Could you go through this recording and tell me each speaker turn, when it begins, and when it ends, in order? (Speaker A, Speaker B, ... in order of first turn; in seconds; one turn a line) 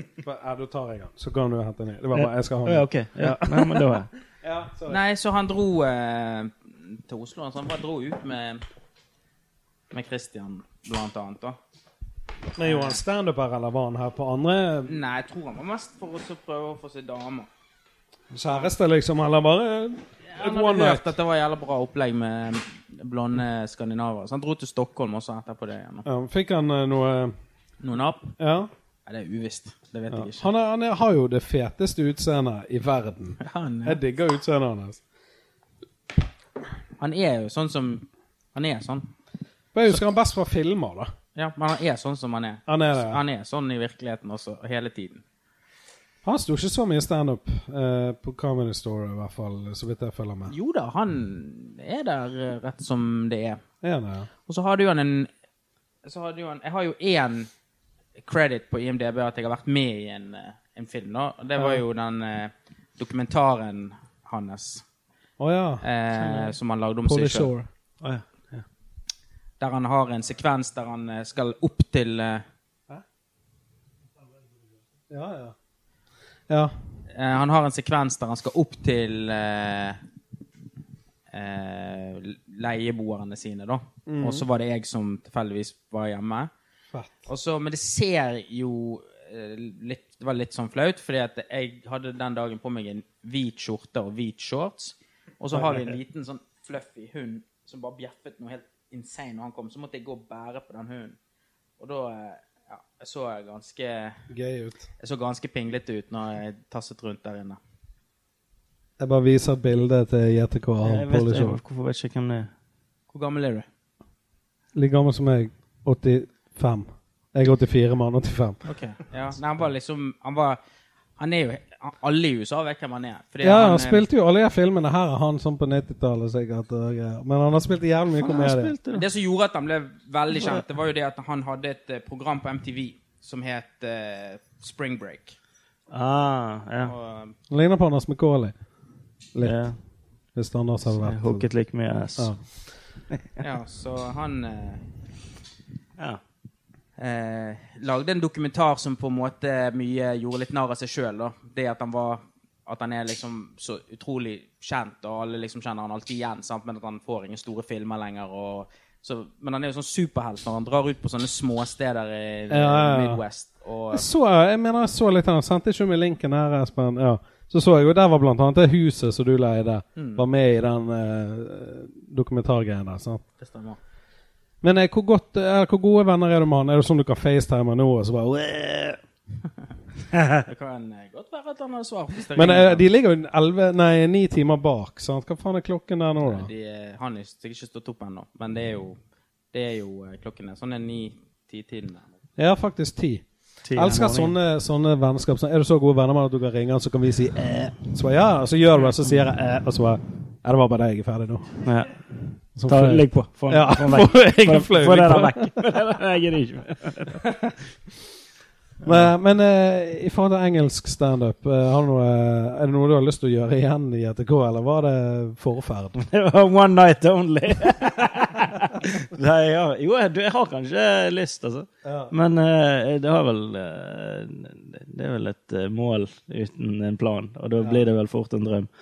Speaker A: 0.2-5.0
Speaker B: 2.1-4.1
Speaker C: 4.9-8.6
Speaker C: 9.9-11.6
Speaker A: 12.6-14.9
Speaker C: 12.6-13.0
Speaker C: 14.9-17.5
Speaker A: 18.3-21.1
Speaker C: 20.3-26.1
Speaker A: 26.1-27.3
Speaker C: 27.8-28.3
Speaker A: 28.4-28.7
Speaker C: 29.1-30.4
Speaker A: 30.1-35.0
Speaker C: 33.4-34.0
Speaker C: 37.0-39.1
Speaker A: 39.7-41.1
Speaker C: 41.4-45.2
Speaker A: 42.7-43.2
Speaker A: 46.2-50.5
Speaker C: 50.5-53.6
Speaker A: 53.8-54.3
Speaker C: 54.5-55.3
Speaker C: 56.0-57.5
Speaker C: 58.2-64.8
Speaker A: 61.6-61.8
Speaker A: 65.4-65.8
Speaker C: 65.8-67.5
Speaker A: 67.0-68.2
Speaker C: 69.6-72.4
Speaker A: 75.1-75.5
Speaker A: 76.5-76.7
Speaker C: 77.1-80.0
Speaker C: 81.3-86.5
Speaker A: 84.0-84.5
Speaker A: 86.9-87.2
Speaker C: 87.2-101.2
Speaker A: 95.5-95.9
Speaker C: 101.8-104.2
Speaker A: 104.3-104.9
Speaker C: 105.0-107.6
Speaker A: 109.0-111.6
Speaker B: 110.8-112.5
Speaker C: 113.1-113.7
Speaker A: 114.7-118.6
Speaker C: 118.7-120.6
Speaker C: 121.2-124.0
Speaker A: 123.4-128.7
Speaker B: 128.2-129.1
Speaker C: 128.9-135.3
Speaker B: 135.9-136.9
Speaker C: 136.8-137.3
Speaker A: 137.5-138.5
Speaker A: 139.3-139.7
Speaker B: 139.4-139.7
Speaker A: 140.3-141.5
Speaker B: 141.0-142.3
Speaker C: 143.4-144.8
Speaker C: 147.0-164.1
Speaker A: 162.5-163.2
Speaker A: 163.9-173.2
Speaker C: 169.9-170.2
Speaker C: 173.4-173.8
Speaker A: 174.6-179.0
Speaker C: 180.4-182.8
Speaker A: 182.3-186.5
Speaker C: 186.2-189.0
Speaker C: 189.5-192.1
Speaker A: 192.4-201.6
Speaker B: 193.6-194.3
Speaker B: 201.6-201.9
Speaker A: 202.6-205.5
Speaker B: 202.6-207.2
Speaker A: 208.8-216.0
Speaker B: 216.0-228.7
Speaker A: 221.8-222.1